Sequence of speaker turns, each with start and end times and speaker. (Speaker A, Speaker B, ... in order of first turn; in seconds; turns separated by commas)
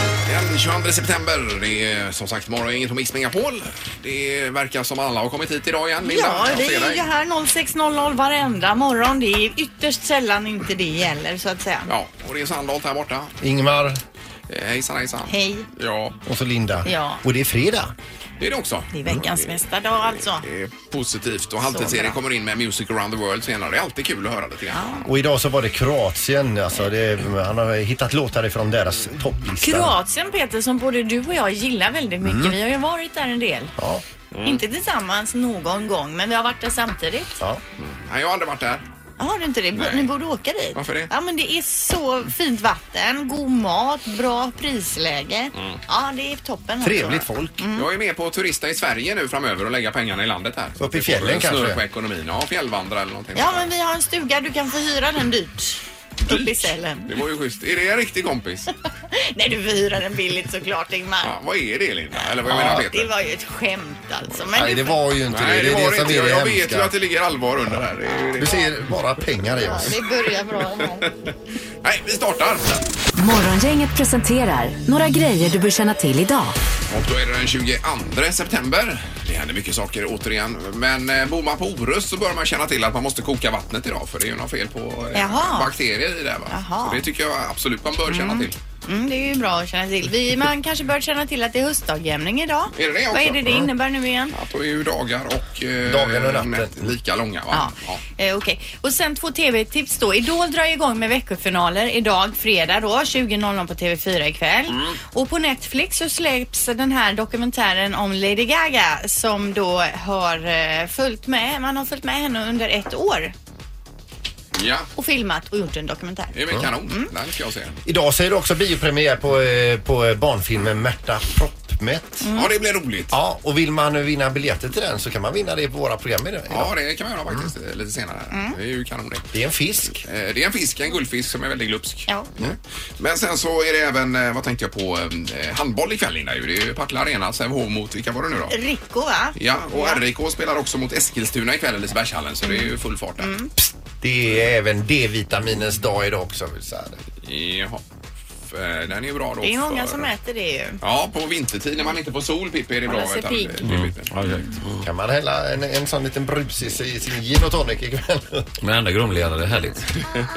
Speaker A: 0.3-7.0, Speaker B: 6.0-11.9, Speaker A: 11.9-13.4, Speaker C: 13.4-14.0, Speaker A: 14.5-16.2, Speaker B: 15.3-15.7, Speaker C: 16.2-17.9, Speaker B: 16.9-17.2, Speaker A: 18.4-19.6, Speaker B: 18.9-20.4, Speaker A: 20.2-25.1, Speaker B: 21.6-22.2, Speaker B: 24.7-25.0, Speaker C: 25.1-29.9, Speaker B: 29.6-33.7, Speaker C: 32.2-32.6, Speaker C: 33.8-34.0, Speaker A: 34.3-34.6, Speaker B: 34.5-37.3, Speaker A: 37.8-38.8, Speaker B: 39.2-47.9, Speaker A: 39.8-40.1, Speaker A: 40.8-41.1, Speaker C: 46.8-47.6, Speaker A: 47.8-53.7, Speaker C: 50.8-51.8, Speaker B: 53.4-57.1, Speaker A: 56.3-58.7, Speaker B: 59.1-61.3, Speaker A: 61.2-63.1, Speaker B: 62.5-65.0, Speaker C: 64.5-66.9, Speaker A: 65.3-68.8, Speaker C: 68.4-69.9, Speaker B: 69.6-71.1, Speaker A: 70.8-71.1, Speaker A: 71.8-72.9, Speaker D: 73.2-76.6, Speaker A: 76.9-88.6, Speaker B: 85.2-85.7, Speaker B: 86.5-87.1, Speaker B: 88.1-94.3, Speaker A: 92.7-93.5, Speaker A: 94.3-98.0, Speaker C: 95.8-96.9, Speaker B: 97.5-113.3, Speaker A: 104.7-105.0, Speaker A: 114.5-114.9, Speaker B: 115.0-116.3, Speaker A: 116.3-117.8, Speaker C: 117.9-122.3, Speaker B: 122.2-122.5, Speaker A: 122.3-123.1, Speaker C: 123.1-126.7, Speaker A: 126.5-129.3, Speaker B: 128.3-128.6, Speaker C: 129.3-130.0, Speaker A: 130.0-138.6, Speaker B: 138.5-140.0, Speaker A: 139.4-143.3, Speaker B: 143.2-143.5, Speaker C: 144.0-147.0, Speaker A: 147.2-147.8, Speaker A: 148.5-150.1, Speaker B: 149.4-150.8, Speaker A: 150.8-154.1, Speaker B: 152.9-153.7, Speaker E: 153.7-154.9, Speaker C: 154.8-158.6, Speaker E: 158.6-159.8